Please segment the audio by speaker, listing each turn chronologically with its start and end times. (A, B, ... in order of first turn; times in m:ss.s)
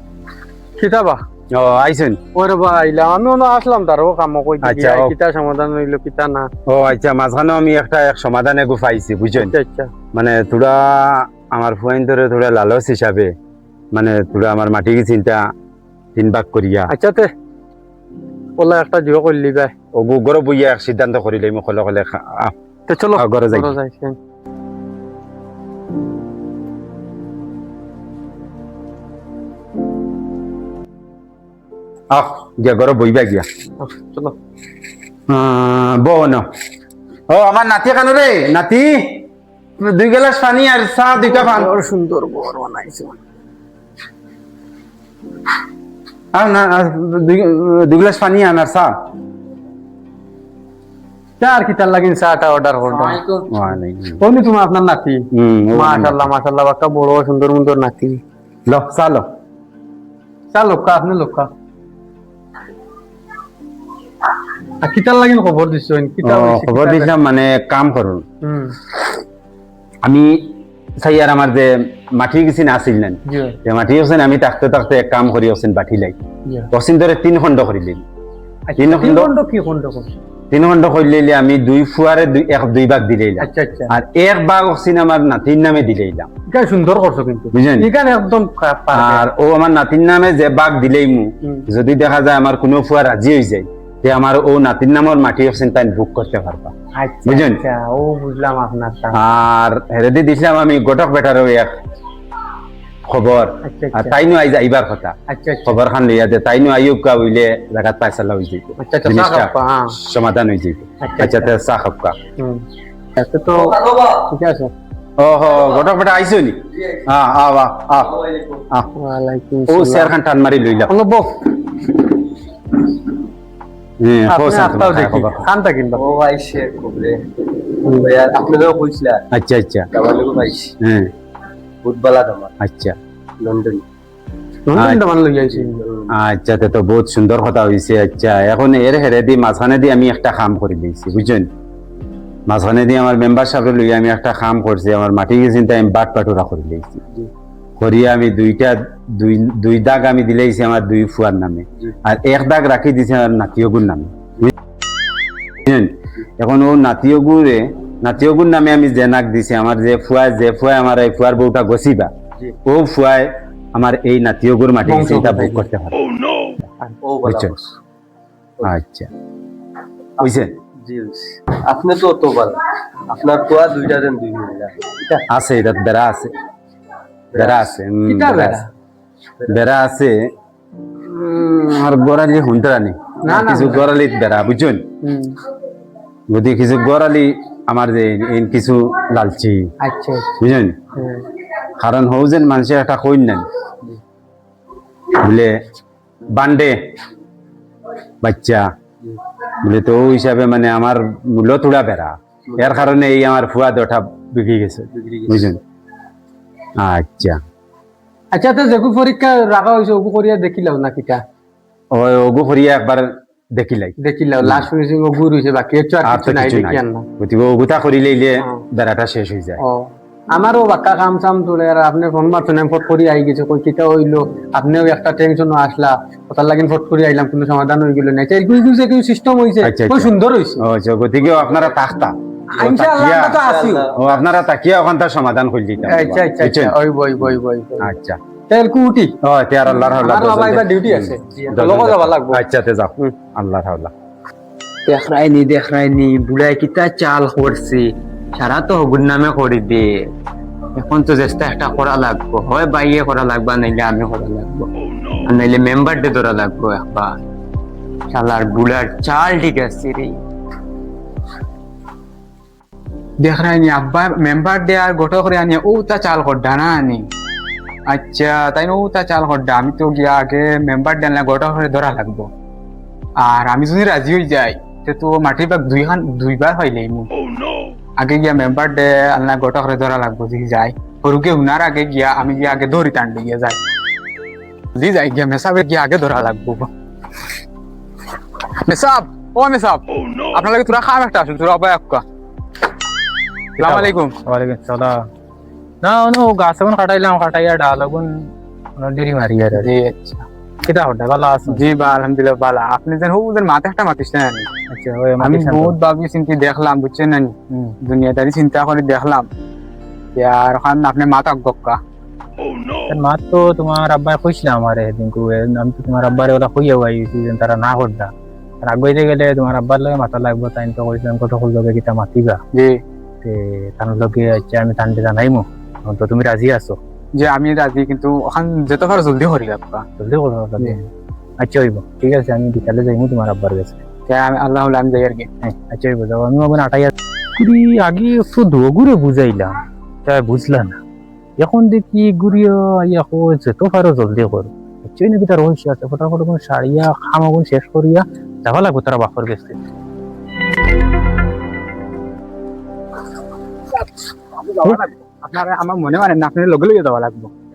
0:00.8-0:01.2 A
0:01.5-0:02.2 B
0:02.4-0:06.5 A
0:04.6-0:05.1 B
0:06.7-0:09.5 B
0:09.4-0:09.9 A
0:10.1-0:13.3 B
0:13.9-0:15.4 B
0:16.2-0:16.9 B
0:16.9-0:17.3 A
0:18.6-0:19.7 A
0:20.0-0:22.6 B
0:22.9-0:24.2 A
0:23.2-0:23.7 B
0:32.1-0:33.5 B
0:33.8-0:34.4 A
0:35.3-0:36.5 B
0:37.3-0:39.3 B
0:39.8-0:41.7 B
0:41.2-0:43.2 A
0:46.3-0:48.9 B
0:51.4-0:53.2 A
0:52.9-0:53.2 C
0:53.5-0:54.2 B
0:54.2-0:55.2 A
0:55.3-0:56.2 B
0:55.7-0:58.2 A
0:58.7-0:59.3 B
1:00.5-1:01.5 A
1:04.8-1:07.1 A
1:06.2-1:08.2 B
1:08.4-1:08.8 A
1:10.0-1:16.2 B
1:13.3-1:13.6 A
1:16.7-1:18.0 B
1:18.7-1:20.1 A
1:18.8-1:19.3 B
1:20.5-1:26.3 B
1:23.4-1:23.9 A
1:26.5-1:29.3 A
1:27.5-1:27.9 B
1:28.9-1:36.7 B
1:31.4-1:31.7 A
1:37.0-1:39.2 A
1:37.3-1:37.6 B
1:39.1-1:41.7 B
1:43.1-1:52.2 B
1:43.6-1:44.2 A
1:45.3-1:45.8 A
1:48.8-1:49.9 A
1:51.0-1:51.5 A
1:52.4-1:52.6 A
1:53.2-1:53.8 A
1:53.5-1:54.2 C
1:54.3-1:54.7 A
1:55.2-1:58.1 B
1:55.5-1:55.9 C
1:58.1-1:58.6 C
1:59.0-2:00.2 A
1:59.7-2:00.9 B
2:00.9-2:02.0 A
2:04.0-2:05.5 B
2:04.3-2:06.0 A
2:05.9-2:07.2 C
2:07.8-2:09.2 C
2:07.9-2:08.1 A
2:09.3-2:09.9 B
2:09.9-2:10.7 C
2:10.8-2:11.1 B
2:11.8-2:12.5 C
2:12.6-2:13.0 B
2:13.4-2:13.8 C
2:14.7-2:15.8 A
2:14.8-2:15.0 B
2:15.4-2:16.1 C
2:16.1-2:21.5 B
2:22.5-2:27.0 B
2:27.8-2:34.5 B
2:35.6-2:42.1 B
2:42.7-2:46.0 B
2:44.8-2:45.6 A
2:47.0-2:47.6 C
2:47.3-2:47.6 B
2:48.6-2:49.1 B
2:50.2-2:50.5 B
2:50.2-2:55.2 C
2:55.3-2:56.3 B
2:57.3-2:57.6 C
2:57.4-2:58.6 B
2:58.0-2:58.7 A
2:59.5-3:00.2 B
3:01.1-3:04.9 B
3:03.2-3:03.9 A
3:05.0-3:05.4 A
3:06.3-3:09.7 B
3:09.8-3:10.3 A
3:10.4-3:10.8 B
3:11.0-3:11.2 A
3:11.8-3:13.5 B
3:15.2-3:15.6 B
3:16.3-3:16.8 B
3:18.2-3:18.6 B
3:19.6-3:25.6 B
3:22.5-3:22.9 C
3:24.9-3:25.6 C
3:26.8-3:27.4 B
3:28.3-3:31.2 A
3:31.9-3:34.7 B
3:34.0-3:37.0 A
3:36.0-3:39.6 B
3:39.6-3:50.6 A
3:49.6-3:58.2 B
3:52.5-3:53.9 A
3:53.5-3:54.2 C
3:55.9-3:57.9 A
3:58.5-3:59.1 A
3:59.2-4:03.9 B
3:59.7-4:02.4 A
4:04.9-4:10.1 D
4:10.8-4:14.7 D
4:15.2-4:17.2 D
4:18.1-4:20.2 D
4:23.2-4:27.0 E
4:27.9-4:32.3 E
4:33.2-4:37.1 E
4:38.0-4:43.6 E
4:44.8-4:46.7 E
4:48.6-4:52.0 E
4:53.6-4:54.2 E
4:53.6-4:54.9 F
4:55.8-4:58.1 F
4:58.8-4:59.7 F
4:59.5-5:00.2 E
5:00.6-5:01.6 F
5:01.5-5:04.5 E
5:04.7-5:05.8 F
5:05.2-5:09.3 E
5:10.2-5:11.8 E
5:12.9-5:18.1 F
5:18.6-5:22.4 F
5:22.5-5:22.8 E
5:23.2-5:26.8 F
5:27.2-5:29.8 E
5:30.0-5:30.9 F
5:31.4-5:33.8 F
5:34.1-5:35.3 E
5:35.4-5:39.5 F
5:40.0-5:40.8 F
5:41.4-5:49.6 F
5:54.4-5:57.3 E